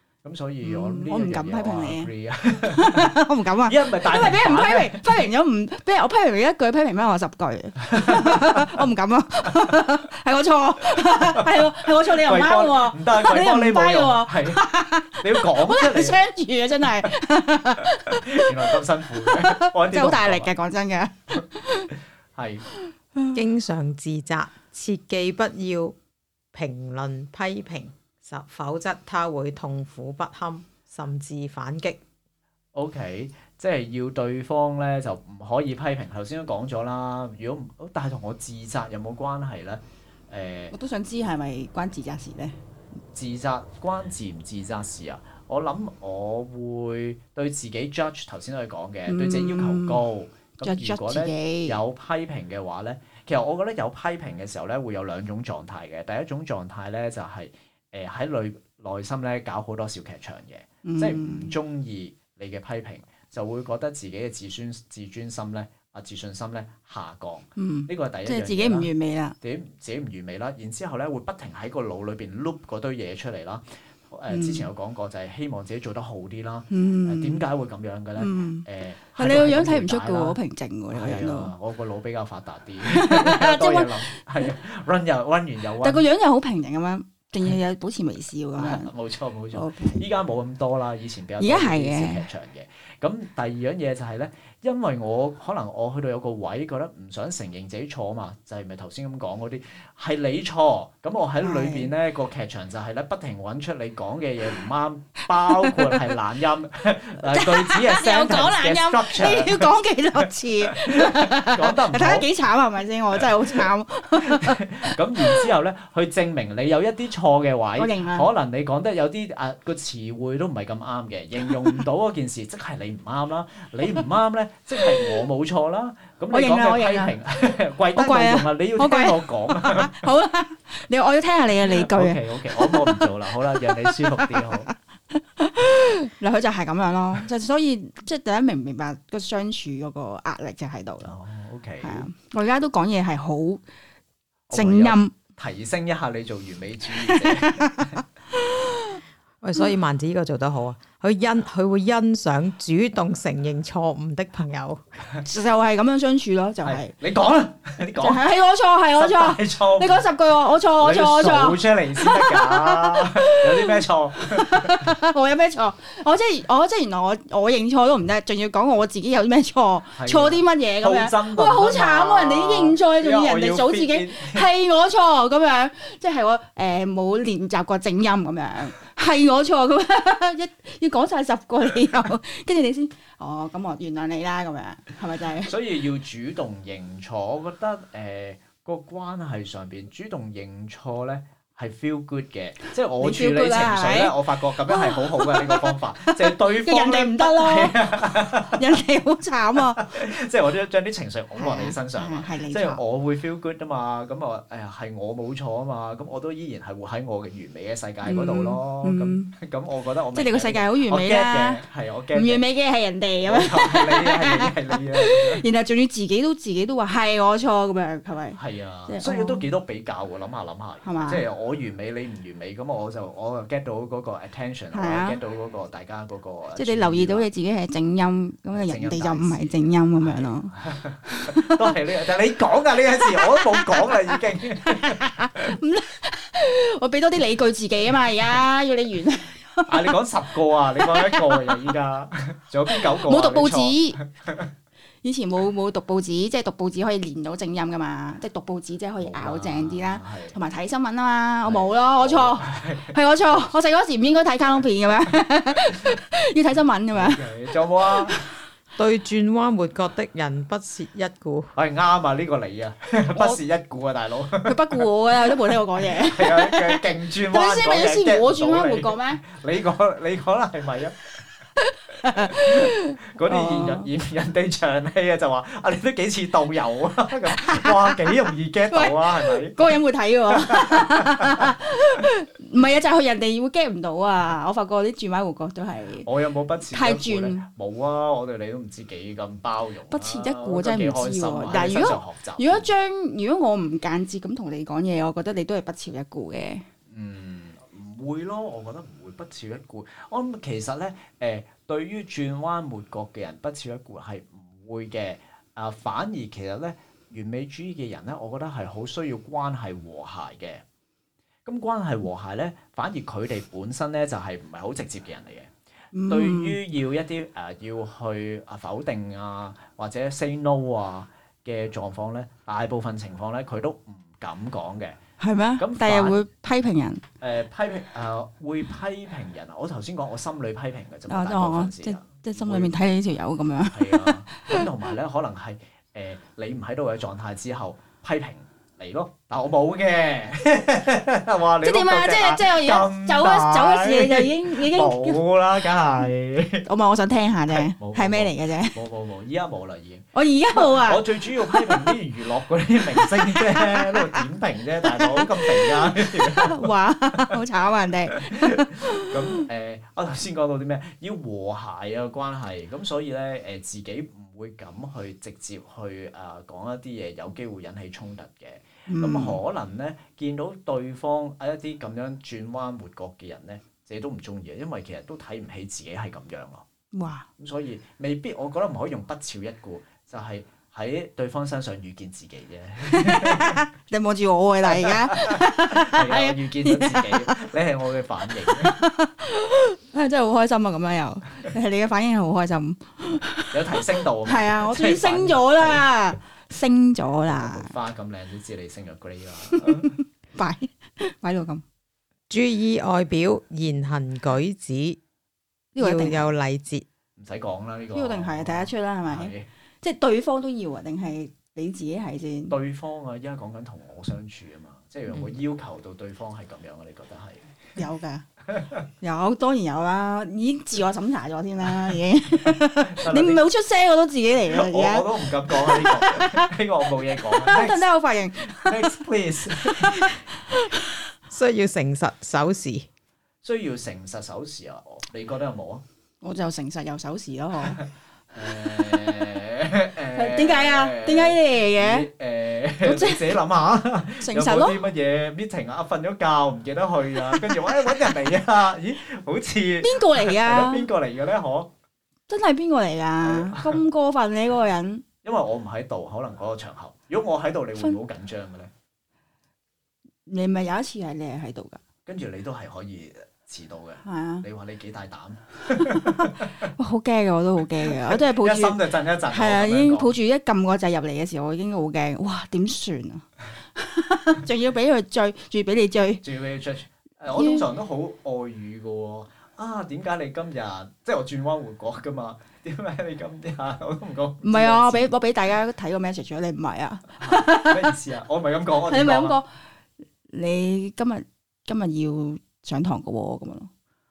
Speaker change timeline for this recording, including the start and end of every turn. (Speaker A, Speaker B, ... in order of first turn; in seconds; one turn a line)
Speaker A: 0.2-3.1
Speaker B: 0.6-2.1
Speaker B: 2.6-21.9
Speaker A: 3.6-5.2
Speaker A: 7.8-8.8
Speaker A: 11.1-14.6
Speaker A: 15.2-16.2
Speaker A: 18.1-20.5
Speaker A: 22.4-22.7
Speaker C: 23.3-26.0
Speaker C: 26.5-32.0
Speaker A: 32.8-40.7
Speaker B: 40.7-42.6
Speaker A: 43.1-68.9
Speaker B: 49.1-50.0
Speaker B: 50.6-51.8
Speaker B: 60.8-61.5
Speaker B: 67.6-69.4
Speaker A: 69.4-80.4
Speaker B: 74.3-74.7
Speaker B: 76.7-77.5
Speaker B: 78.2-81.5
Speaker A: 80.9-86.0
Speaker B: 82.8-84.5
Speaker B: 85.8-88.9
Speaker A: 88.6-109.7
Speaker B: 89.5-90.0
Speaker B: 91.4-92.3
Speaker B: 101.4-101.9
Speaker B: 105.3-106.2
Speaker B: 107.2-115.5
Speaker A: 110.7-112.3
Speaker A: 113.2-130.0
Speaker B: 117.8-118.3
Speaker B: 121.5-121.8
Speaker B: 124.8-125.2
Speaker B: 126.3-127.2
Speaker B: 128.0-141.2
Speaker A: 131.6-134.7
Speaker A: 141.0-142.1
Speaker B: 141.8-143.6
Speaker A: 144.5-148.0
Speaker B: 144.5-145.1
Speaker B: 146.9-149.0
Speaker C: 149.4-154.8
Speaker B: 155.2-156.9
Speaker A: 156.6-158.2
Speaker B: 158.0-185.5
Speaker A: 159.0-160.1
Speaker A: 160.8-164.9
Speaker A: 170.0-174.4
Speaker A: 185.4-198.7
Speaker B: 193.0-199.8
Speaker A: 199.8-212.4
Speaker B: 201.4-202.8
Speaker B: 208.1-209.3
Speaker B: 210.1-219.5
Speaker A: 213.2-215.4
Speaker A: 218.4-227.3
Speaker B: 220.8-221.2
Speaker B: 224.7-225.2
Speaker B: 226.6-230.5
Speaker A: 228.5-235.6
Speaker B: 231.1-231.7
Speaker B: 233.0-240.0
Speaker A: 239.7-244.5
Speaker B: 240.8-241.7
Speaker B: 242.7-244.0
Speaker B: 245.0-257.3
Speaker A: 249.0-250.4
Speaker A: 251.4-253.5
Speaker A: 256.9-258.2
Speaker B: 257.8-258.3
Speaker C: 258.8-261.5
Speaker A: 261.6-264.8
Speaker B: 264.4-269.2
Speaker A: 265.8-271.0
Speaker B: 271.6-273.9
Speaker A: 272.1-279.6
Speaker B: 277.4-278.1
Speaker B: 278.7-286.1
Speaker A: 280.4-281.5
Speaker A: 286.0-292.7
Speaker B: 286.7-287.5
Speaker B: 289.9-296.7
Speaker A: 296.9-310.6
Speaker A: 311.5-315.5
Speaker B: 315.9-316.6
Speaker A: 316.1-325.0
Speaker B: 325.2-327.0
Speaker A: 325.6-326.2
Speaker A: 327.2-332.7
Speaker B: 331.1-334.7
Speaker A: 333.7-346.6
Speaker B: 341.6-345.2
Speaker B: 346.6-348.8
Speaker A: 347.5-357.4
Speaker B: 350.1-351.9
Speaker B: 352.9-354.2
Speaker B: 354.9-359.4
Speaker A: 358.2-376.6
Speaker B: 368.9-369.4
Speaker B: 376.9-377.3
Speaker A: 377.4-383.6
Speaker B: 382.9-387.4
Speaker A: 384.7-388.8
Speaker B: 388.5-397.7
Speaker A: 393.5-395.9
Speaker A: 397.3-399.9
Speaker B: 399.5-401.6
Speaker C: 402.3-405.0
Speaker B: 405.8-406.3
Speaker C: 405.8-406.9
Speaker A: 407.2-409.5
Speaker B: 407.9-412.6
Speaker A: 412.5-417.6
Speaker B: 417.8-418.3
Speaker A: 418.5-418.8
Speaker B: 419.0-426.5
Speaker A: 422.4-423.4
Speaker A: 424.5-427.9
Speaker B: 427.1-429.0
Speaker A: 428.4-430.1
Speaker B: 429.5-431.0
Speaker C: 431.3-432.9
Speaker A: 433.4-435.8
Speaker B: 436.2-437.8
Speaker A: 438.4-451.7
Speaker B: 440.1-442.1
Speaker B: 442.8-443.4
Speaker B: 444.2-444.8
Speaker B: 447.3-448.1
Speaker B: 449.8-450.9
Speaker B: 452.3-455.1
Speaker A: 453.2-453.8
Speaker A: 455.2-458.7
Speaker B: 460.3-461.8
Speaker A: 462.1-466.7
Speaker B: 464.0-464.4
Speaker B: 465.8-476.2
Speaker A: 467.9-470.1
Speaker A: 476.2-485.1
Speaker B: 477.3-477.7
Speaker B: 484.4-487.9
Speaker A: 487.2-489.4
Speaker B: 488.9-489.5
Speaker B: 490.3-493.7